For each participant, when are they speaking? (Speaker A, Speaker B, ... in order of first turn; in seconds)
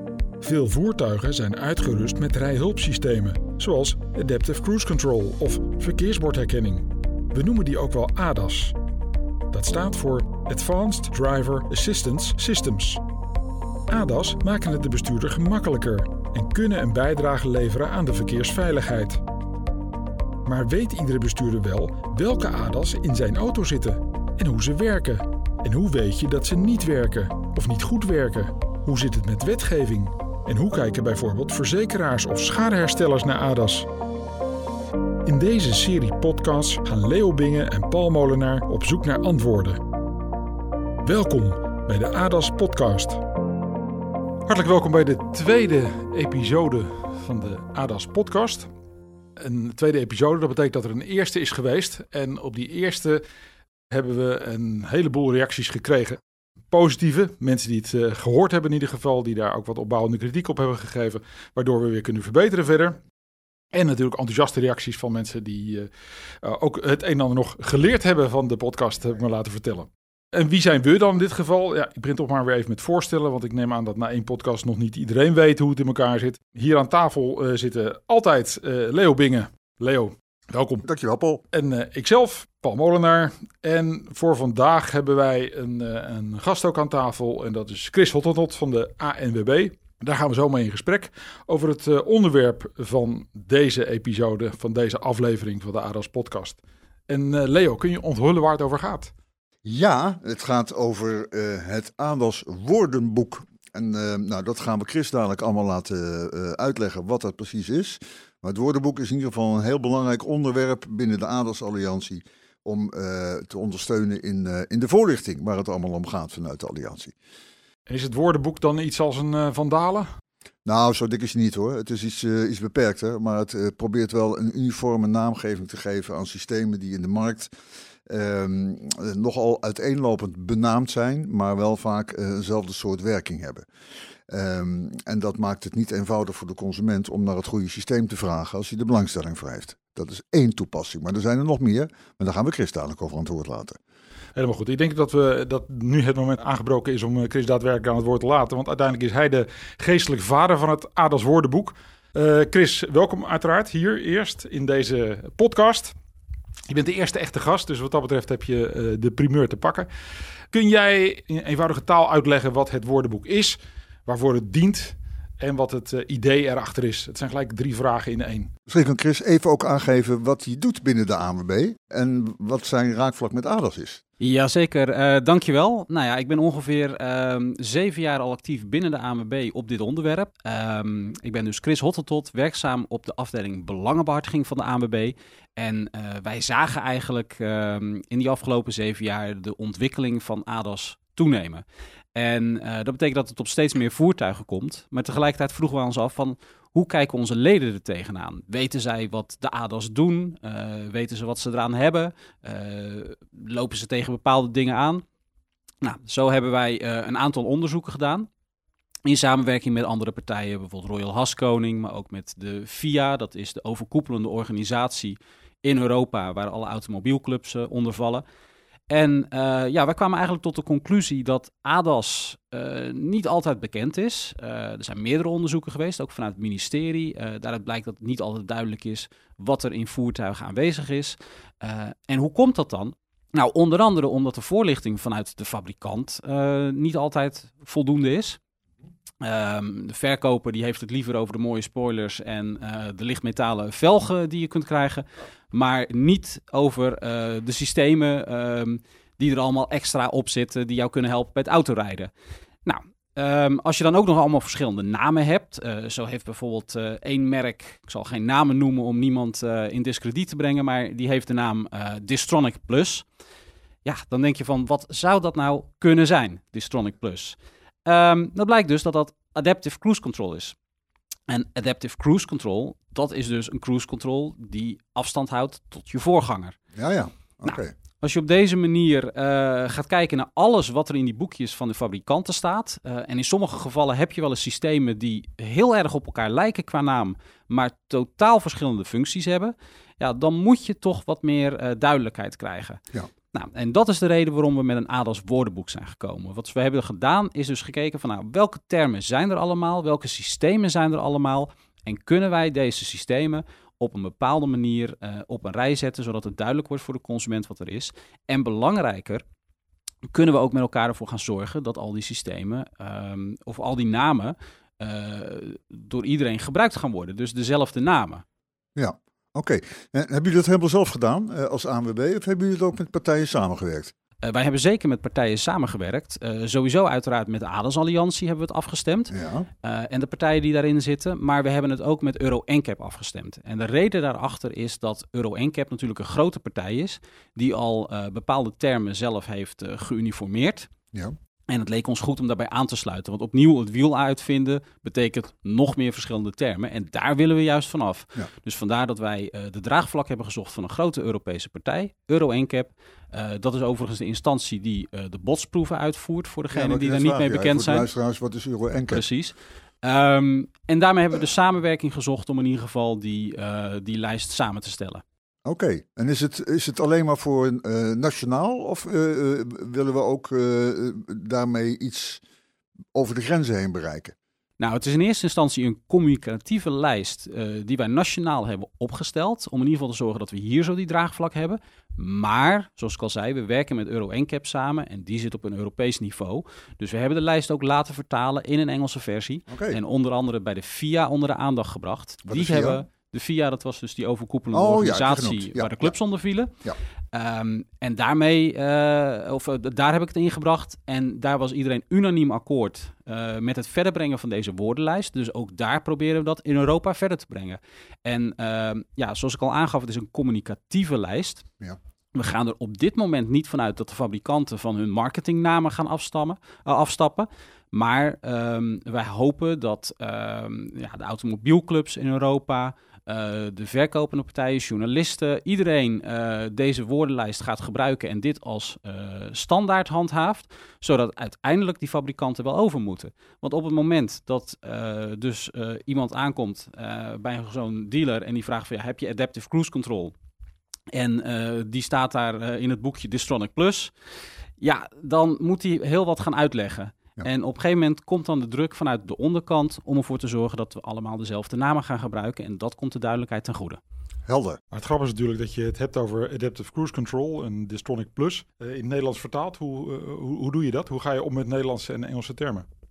Speaker A: 0.4-8.8, 9.5-13.0, 13.9-19.2, 20.4-33.9, 35.3-39.8, 41.0-43.2, 44.5-48.7, 49.4-53.2, 53.9-56.2, 56.7-63.0, 63.7-65.9, 66.4-80.8, 81.5-99.1, 117.9-120.1, 144.4-155.9, 156.7-159.9, 160.5-168.5, 454.7-462.7
Speaker B: 80.8-81.4, 99.7-117.1, 120.7-127.5, 128.1-133.7, 134.3-143.8, 168.7-174.0, 276.8-277.7, 318.8-323.9, 329.1-329.5, 356.5-359.0, 365.4-372.2, 372.9-374.1, 389.5-389.8, 392.2-392.8, 394.5-395.9, 454.3-454.6
Speaker C: 174.2-191.6, 192.2-205.0, 205.8-208.3, 209.1-218.2, 218.9-238.4, 239.2-252.1, 252.7-263.1, 263.9-270.6, 271.3-276.6, 277.5-309.2, 310.1-318.2, 324.2-340.7, 341.5-357.9, 358.9-365.0, 374.6-396.5, 397.1-411.4, 412.1-440.1, 440.9-443.9, 444.6-453.8